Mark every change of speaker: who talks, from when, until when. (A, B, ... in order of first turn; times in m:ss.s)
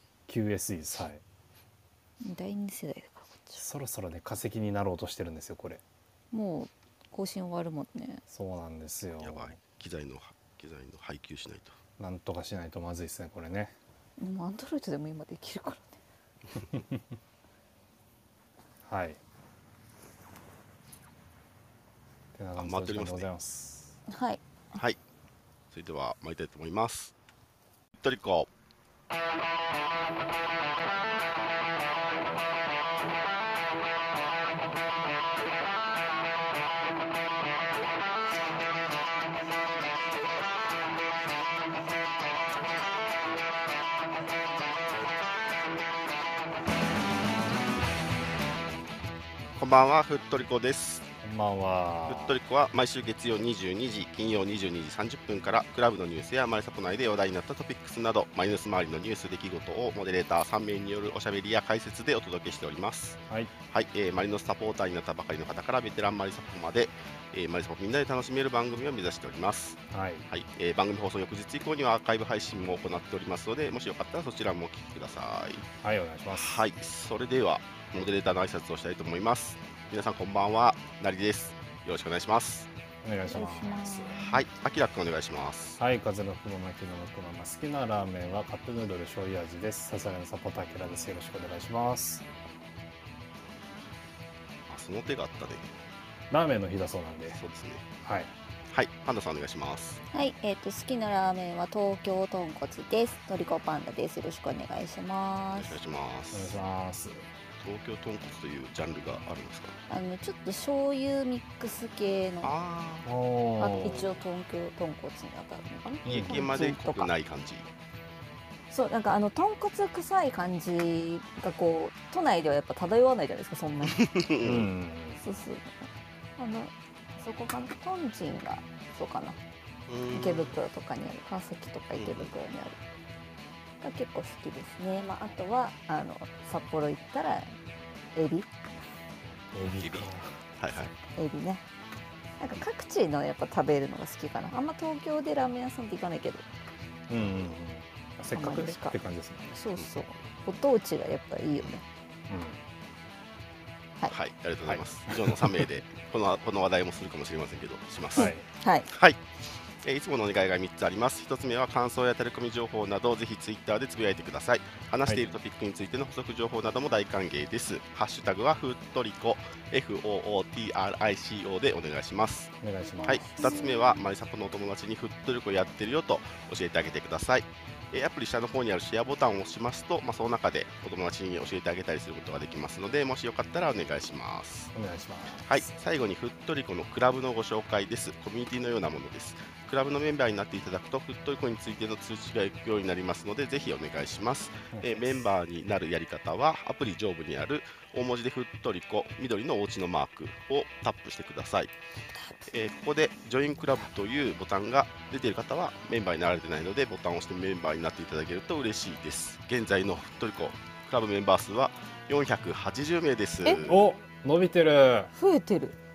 0:00.3-0:01.2 A
0:02.2-0:03.6 B
0:03.6-0:05.8 A
0:06.3-0:08.2 B
0:08.3-0:09.6 A
0:09.2-0:11.8 C
0:12.0-0:13.7 A
0:14.2-0:16.0 B
0:16.7-0:17.0 A
0:18.8-0:19.2 A
0:22.3-0:24.0 A
0:22.6-0:23.3 C
0:24.1-0:24.4 B
0:25.7-0:27.1 C
0:28.0-0:28.5 C
0:49.6-0:51.1 C
0:51.2-0:52.4 A
0:52.1-1:03.2 C
1:03.7-1:15.6 C
1:09.9-1:10.3 A
1:15.8-1:16.6 A
1:16.3-1:22.7 C
1:23.0-1:24.1 A
1:23.3-1:24.4 B
1:24.2-1:25.8 C
1:25.8-1:32.2 A
1:34.7-1:35.7 C
1:36.3-1:37.4 A
1:37.3-1:37.8 C
1:38.0-1:38.3 A
1:38.7-1:40.0 C
1:40.1-1:45.7 B
1:45.5-1:46.6 C
1:46.3-1:47.2 A
1:47.6-1:49.8 C
1:49.9-1:52.5 B
1:52.4-1:53.1 C
1:53.0-1:54.1 A
1:53.6-1:57.1 B
1:56.0-1:57.7 C
1:56.0-1:56.4 A
1:58.7-2:04.0 B
2:03.9-2:04.7 C
2:04.4-2:05.2 A
2:05.2-2:05.7 B
2:06.4-2:09.4 B
2:09.9-2:10.6 C
2:10.1-2:12.8 B
2:12.0-2:12.3 C
2:13.8-2:17.5 B
2:18.1-2:18.5 B
2:19.5-2:20.4 A
2:19.6-2:20.9 C
2:21.1-2:21.6 B
2:22.4-2:26.4 B
2:27.1-2:29.6 A
2:27.1-2:27.6 C
2:28.3-2:29.0 B
2:29.5-2:31.8 B
2:32.3-2:32.6 A
2:34.1-2:38.3 C
2:34.6-2:35.6 A
2:38.1-2:38.9 B
2:38.1-2:38.4 A
2:38.9-2:39.2 C
2:39.8-2:52.5 C
2:52.6-2:53.5 A
2:53.0-2:53.9 B
2:53.0-3:04.7 C
3:04.7-3:05.7 A
3:05.4-3:21.7 C
3:14.7-3:15.0 A
3:22.5-3:33.8 C
3:33.6-3:35.1 A
3:35.1-3:35.8 B